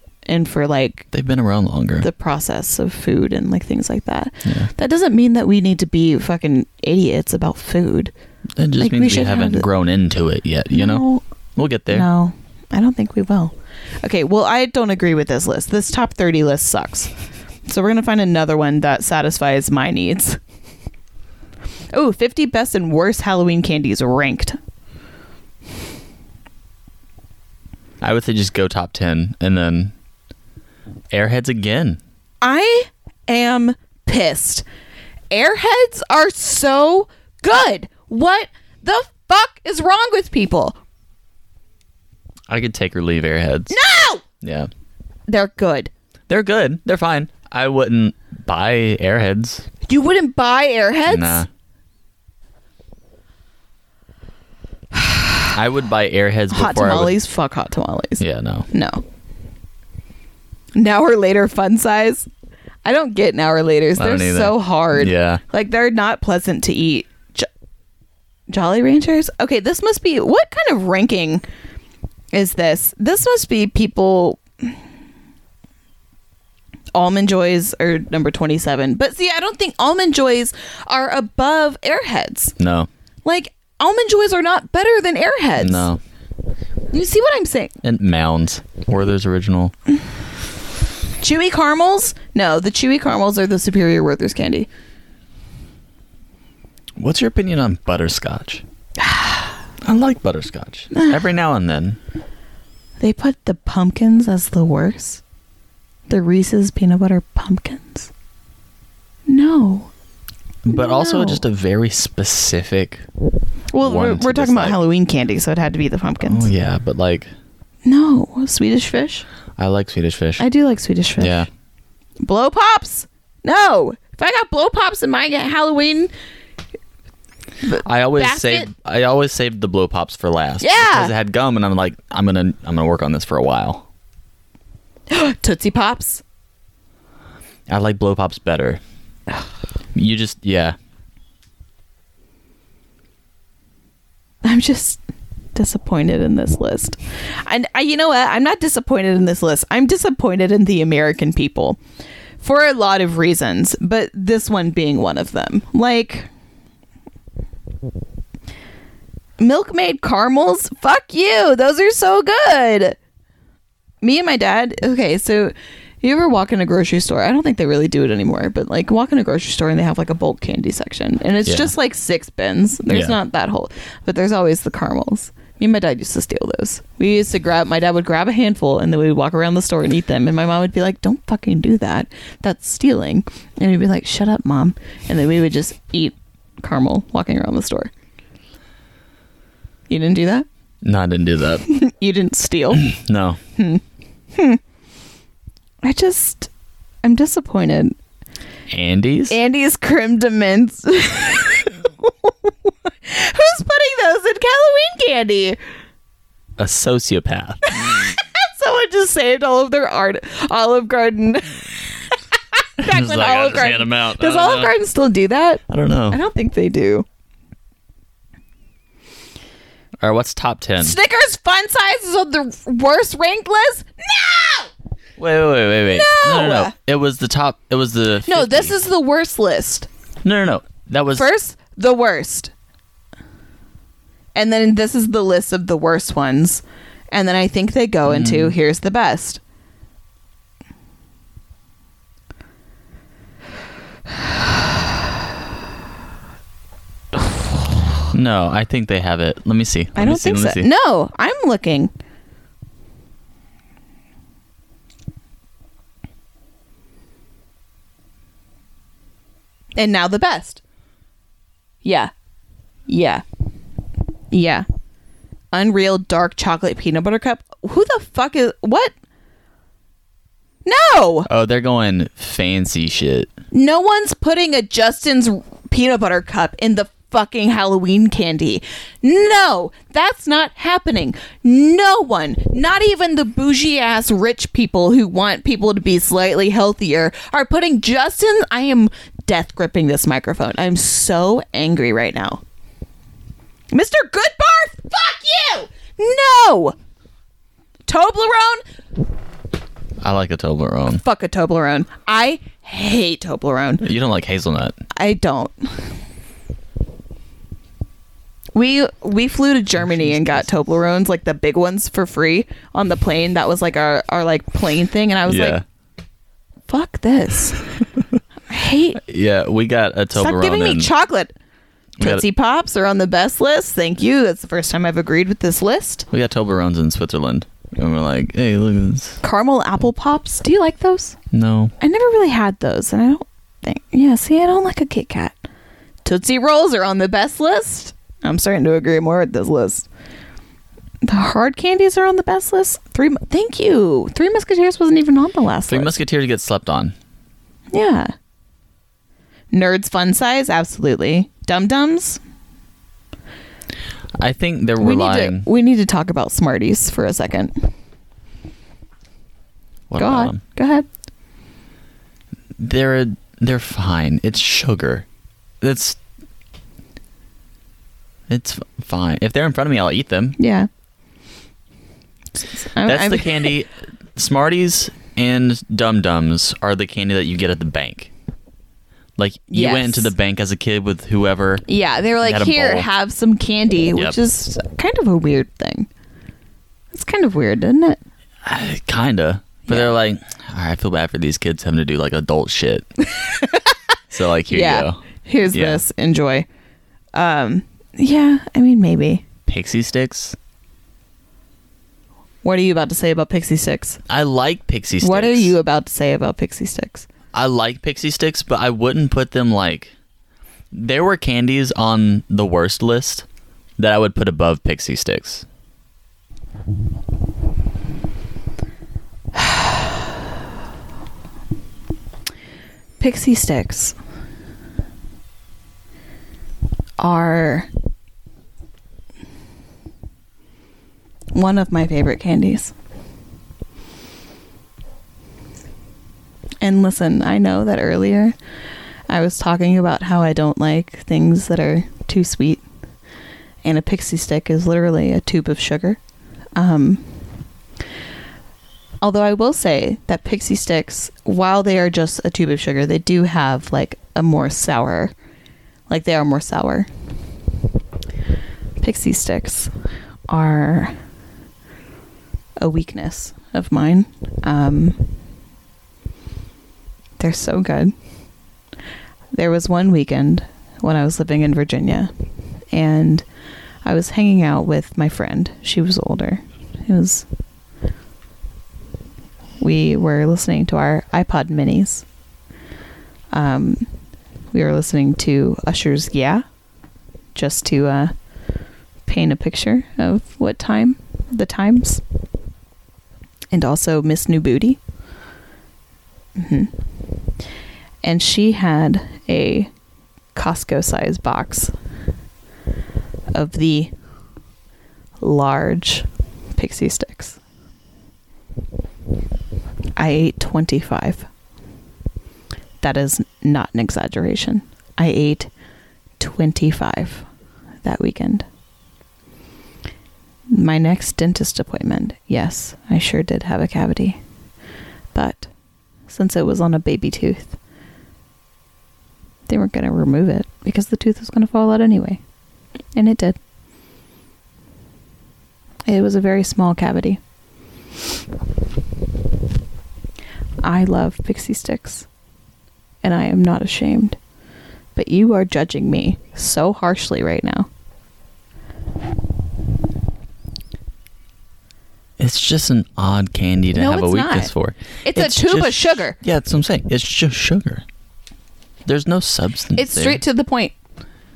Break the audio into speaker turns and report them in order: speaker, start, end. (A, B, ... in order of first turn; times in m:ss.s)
0:00.2-0:01.1 A
0:01.1-0:02.1 B
0:02.0-0:08.1 A
0:04.4-0:04.7 B
0:08.6-0:11.0 B
0:08.8-0:09.7 A
0:10.7-0:11.2 A
0:11.6-0:12.1 B
0:11.9-0:17.1 A
0:17.6-0:20.4 A
0:21.9-0:24.6 A
0:28.0-0:29.9 B
0:31.1-0:32.0 B
0:32.4-0:34.6 A
0:35.3-0:40.8 A
0:42.5-0:43.8 B
0:43.7-0:44.2 A
0:44.4-0:44.7 B
0:45.3-0:45.9 A
0:46.3-0:49.7 B
0:49.8-0:51.4 A
0:51.1-0:51.5 B
0:54.9-0:55.5 A
0:55.5-0:57.2 B
0:56.5-0:59.0 A
0:58.2-0:58.7 B
1:00.7-1:02.3 A
1:02.8-1:07.5 A
1:04.0-1:05.4 B
1:08.5-1:11.4 A
1:12.3-1:14.8 A
1:16.9-1:22.6 A
1:22.6-1:22.9 B
1:23.2-1:25.9 A
1:25.6-1:26.0 B
1:26.9-1:27.7 A
1:27.8-1:29.7 B
1:31.2-1:34.7 A
1:37.0-1:38.6 B
1:39.0-1:39.5 A
1:39.8-1:42.0 B
1:40.9-1:41.2 A
1:43.0-1:45.2 A
1:46.1-1:48.1 A
1:49.3-1:49.9 A
1:50.6-1:53.0 B
1:50.7-1:51.4 A
1:53.7-1:56.5 A
1:53.8-1:54.8 B
1:56.2-1:57.3 B
1:57.8-1:59.2 A
1:59.6-2:00.4 B
2:00.4-2:01.4 A
2:01.2-2:01.5 B
2:02.2-2:06.1 A
2:07.6-2:08.7 A
2:07.8-2:13.8 B
2:10.6-2:11.1 A
2:15.1-2:16.2 A
2:17.7-2:18.8 B
2:19.9-2:20.8 B
2:24.4-2:25.0 A
2:25.5-2:31.8 A
2:32.4-2:36.3 A
2:39.4-2:43.0 A
2:44.0-3:07.9 A
2:51.4-2:51.7 B
2:52.9-2:53.2 B
3:09.9-3:10.4 A
3:10.8-3:11.6 B
3:11.6-3:12.9 A
3:12.7-3:13.4 B
3:13.6-3:13.8 A
3:14.3-3:14.6 A
3:15.8-3:16.5 A
3:17.0-3:18.0 A
3:18.7-3:19.4 B
3:19.3-3:25.6 A
3:26.6-3:27.6 B
3:27.7-3:37.0 A
3:32.8-3:34.7 B
3:35.7-3:36.2 B
3:40.0-3:41.0 B
3:40.8-3:44.7 A
3:45.2-3:48.7 B
3:45.9-3:46.7 A
3:48.2-3:49.9 A
3:50.2-3:51.3 B
3:51.2-3:52.5 A
3:54.3-3:59.4 A
3:58.0-3:58.6 B
4:08.1-4:10.7 B
4:09.9-4:11.9 A
4:19.8-4:20.6 A
4:21.8-4:22.1 A
4:22.9-4:23.2 A
4:24.3-4:24.6 A
4:25.5-4:28.9 A
4:30.6-4:31.3 A
4:31.3-4:33.3 B
4:33.5-4:52.4 A
4:53.7-4:56.7 A
4:57.9-4:58.6 A
5:00.0-5:01.0 B
5:01.0-5:03.8 A
5:03.8-5:04.8 B
5:04.9-5:05.8 A
5:08.5-5:15.6 A
5:09.8-5:10.5 B
5:15.3-5:15.6 B
5:16.7-5:17.6 A
5:18.5-5:19.0 A
5:19.0-5:20.9 B
5:20.1-5:21.3 A
5:22.0-5:22.2 B
5:22.0-5:26.1 A
5:26.1-5:29.2 B
5:29.2-5:31.2 A
5:31.3-5:31.7 B
5:31.8-5:35.4 A
5:36.0-5:39.9 A
5:41.0-5:46.0 A
5:45.7-5:46.9 B
5:47.7-5:48.1 A
5:49.5-5:52.2 A
5:54.2-5:55.5 B
5:54.8-5:57.7 A
5:59.9-6:00.4 B
6:00.0-6:00.8 A
6:02.6-6:05.1 B
6:05.6-6:06.0 B
6:08.3-6:10.4 B
6:10.4-6:10.7 A
6:12.4-6:13.5 A
6:12.8-6:18.1 B
6:19.2-6:21.6 B
6:19.5-6:20.1 A
6:21.7-6:25.9 A
6:22.2-6:22.9 B
6:26.9-6:28.0 A
6:28.4-6:32.9 B
6:33.2-6:33.7 A
6:34.1-6:35.8 B
6:34.5-6:36.5 A
6:37.1-6:39.2 A
6:39.5-6:40.4 B
6:42.4-6:44.0 A
6:44.1-6:45.6 B
6:45.0-6:47.1 A
6:47.3-6:49.9 B
6:50.7-6:53.2 B
6:53.8-6:55.4 B
6:59.3-6:59.9 A
7:03.0-7:04.0 A
7:07.0-7:07.7 A
7:11.3-7:12.7 A
7:16.6-7:18.3 A
7:19.1-7:22.6 A
7:23.6-7:26.0 A
7:26.6-7:27.0 A
7:29.0-7:35.1 A
7:35.9-7:36.9 A
7:38.8-7:39.7 A
7:40.3-7:40.9 A
7:42.6-7:45.0 A
7:47.2-7:47.9 A
7:49.3-7:52.1 A
7:52.7-7:53.2 A
7:53.8-7:57.2 A
7:59.6-8:02.0 A
8:03.3-8:03.8 A
8:04.5-8:06.4 A
8:07.3-8:08.1 A
8:09.1-8:12.0 A
8:13.5-8:14.8 A
8:16.4-8:16.7 A
8:18.0-8:19.7 A
8:20.3-8:21.7 A
8:23.3-8:23.9 A
8:25.2-8:27.4 A
8:30.0-8:31.2 A
8:32.8-8:35.5 A
8:36.2-8:37.2 A
8:37.8-8:38.4 A
8:40.5-8:44.2 A
8:45.1-8:45.5 A
8:46.1-8:47.6 A
8:49.5-8:52.2 A
8:52.9-8:53.4 A
8:55.9-8:57.2 A
9:00.6-9:02.1 A
9:03.0-9:04.2 A
9:04.9-9:07.7 A
9:12.2-9:17.8 B
9:13.7-9:14.5 A
9:15.0-9:16.2 A
9:18.8-9:20.2 B
9:19.8-9:20.7 A